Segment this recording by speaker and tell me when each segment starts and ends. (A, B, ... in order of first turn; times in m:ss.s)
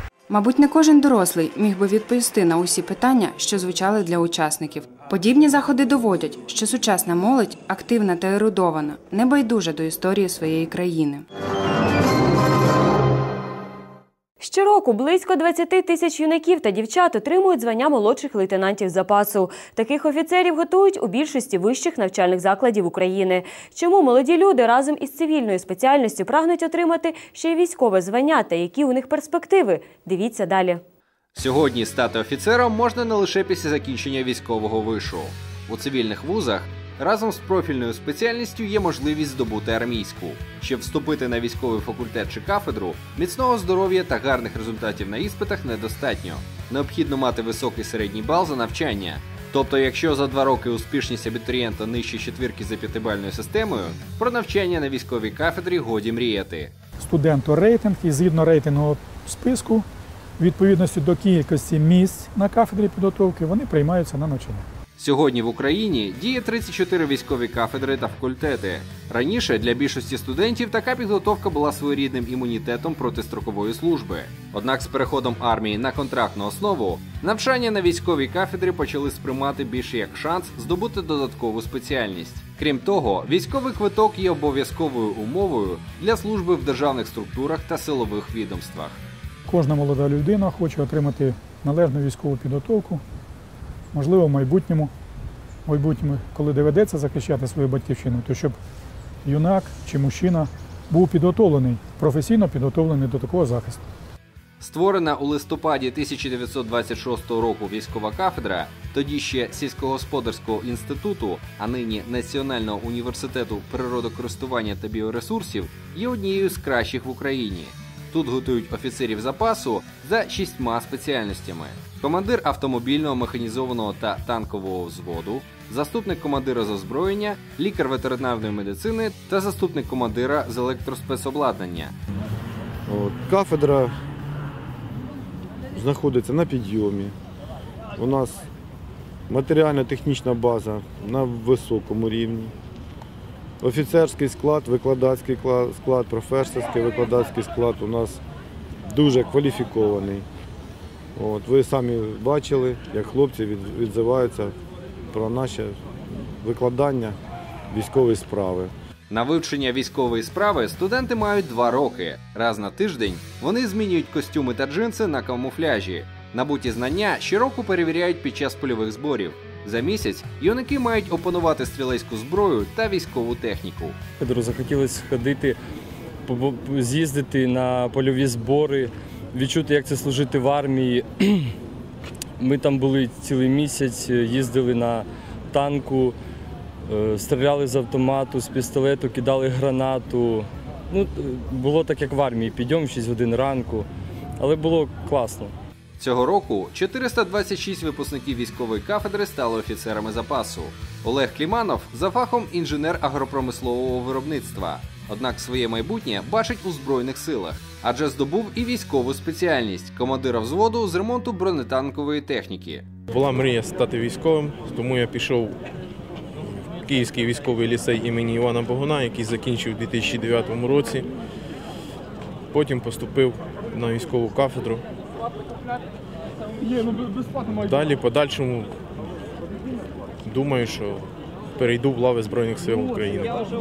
0:00.3-0:11.2 A
0:14.4-0:30.8 B
0:31.4-0:56.7 C
0:57.0-0:59.9 D
1:00.4-1:04.7 D
1:05.0-1:29.0 C
1:29.5-1:33.0 D
1:33.9-1:34.9 D
1:35.7-1:38.6 D
1:39.2-1:43.8 D
1:44.6-2:11.9 C
2:12.9-2:13.9 E
2:15.7-2:17.2 E
2:18.0-2:18.4 E
2:19.3-2:22.6 E
2:23.6-2:28.2 E
2:28.9-2:30.3 E
2:31.2-2:34.6 E
2:35.1-2:37.2 E
2:37.7-2:38.7 E
2:39.1-2:54.0 C
2:54.2-2:55.6 F
2:56.3-3:01.5 F
3:02.4-3:06.2 F
3:06.9-3:13.9 F
3:14.4-3:15.5 F
3:16.0-3:32.9 C
3:33.1-3:35.6 G
3:36.8-3:41.1 G
3:42.5-3:44.8 G
3:47.6-3:48.8 G
3:50.2-3:53.4 G